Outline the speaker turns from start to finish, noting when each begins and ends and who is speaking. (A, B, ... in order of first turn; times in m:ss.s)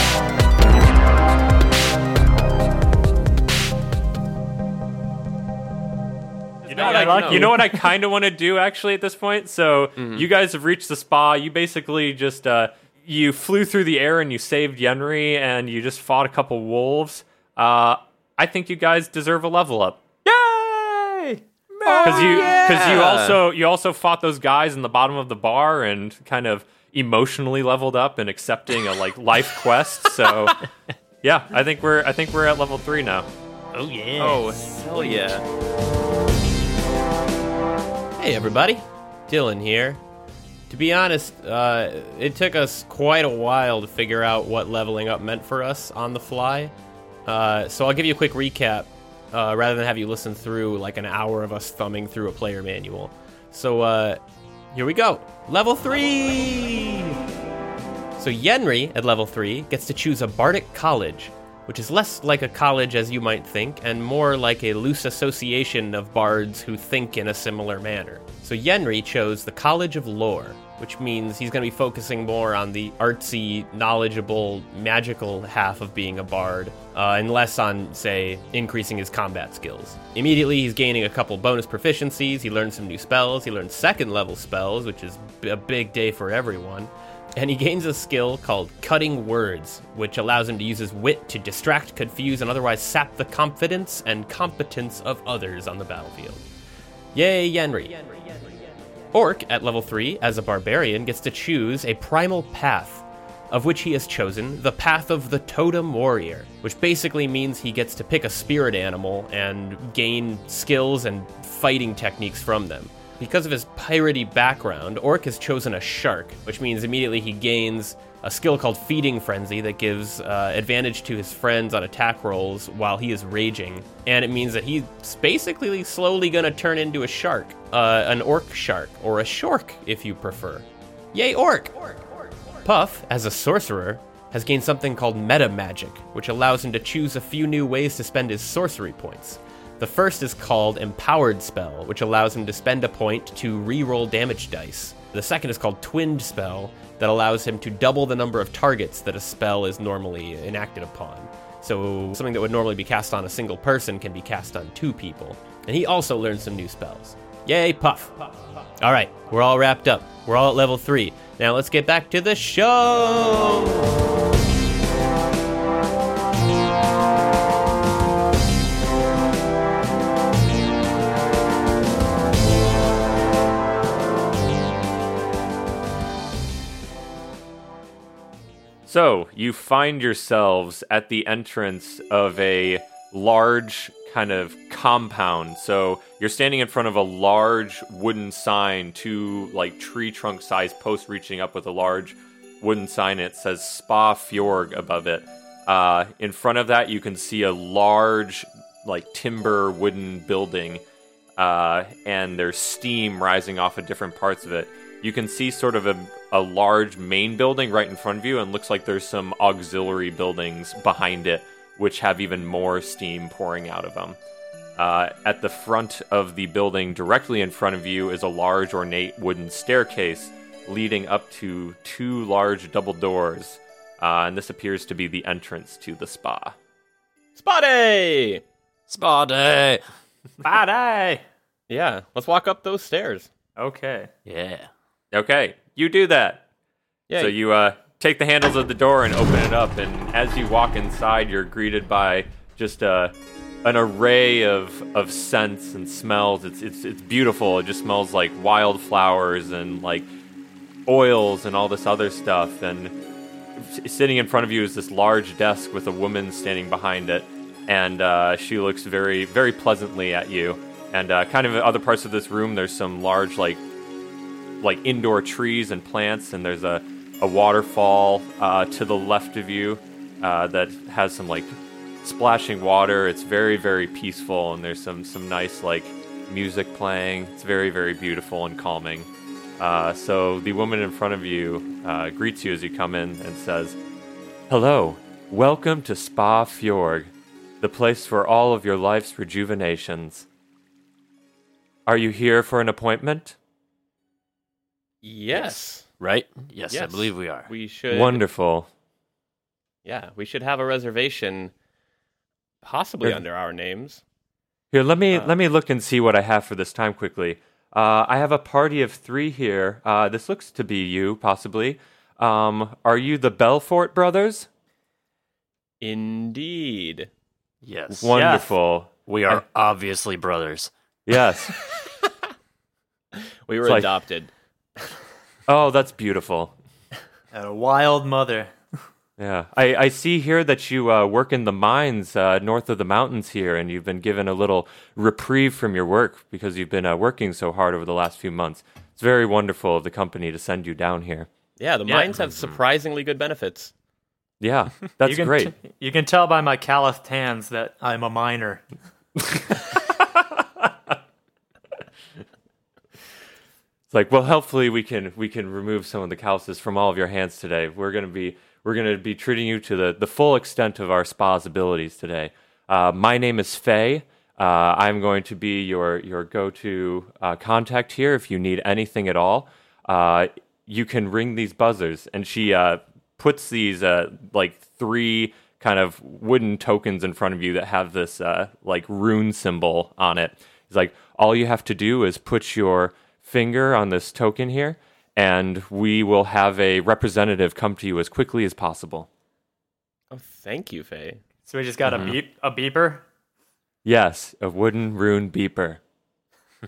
0:06.6-0:07.5 A
0:06.7-0:07.8 B
0:06.7-0:20.0 C
0:10.0-0:10.2 A
0:20.2-0:22.6 B
0:21.8-0:23.4 A
0:22.0-0:30.6 C
0:31.2-0:33.3 C
0:33.7-0:35.4 B
0:34.2-0:35.4 A
0:38.2-0:40.0 A
0:40.7-0:46.7 A
0:47.3-0:54.2 A
0:54.7-0:57.3 A
0:58.2-1:36.4 A
1:37.1-1:38.2 A
1:39.1-2:11.8 A
2:12.6-2:38.2 A
2:38.8-2:44.0 A
2:58.9-3:20.8 C
3:21.4-3:34.2 C
3:34.8-3:46.6 C
3:47.4-3:48.4 A
3:48.9-3:49.8 D
3:50.4-3:51.2 B
3:51.7-3:53.3 A
3:53.6-3:54.1 B
3:54.3-3:54.7 D
3:55.1-3:56.4 C
3:57.1-3:57.4 A
3:57.2-4:10.1 C
4:10.9-4:13.0 C
4:13.6-4:23.6 C
4:24.6-4:43.8 C
4:44.5-4:50.3 C
4:51.9-4:53.4 C
4:55.0-4:55.8 A
4:55.4-4:57.5 D
4:56.7-4:58.2 A
4:57.9-4:58.7 C
4:59.8-5:01.5 A
5:02.6-5:04.0 A
5:04.7-5:14.5 C
5:15.8-5:17.1 A
5:17.6-5:18.1 D
5:17.9-5:19.4 C
5:18.1-5:18.5 B
5:19.1-5:20.7 D
5:21.1-5:21.6 C
5:23.5-5:24.3 A
5:23.6-5:23.9 C
5:25.5-5:26.5 C
5:27.3-5:28.5 B
5:29.2-5:41.3 C
5:41.6-5:43.7 A
5:42.3-5:42.6 D
5:44.4-5:45.5 C
5:45.0-5:48.6 B
5:53.9-6:29.1 C
6:30.1-6:31.2 A
6:31.5-6:33.0 B
6:31.9-6:32.2 D
6:33.8-6:35.8 C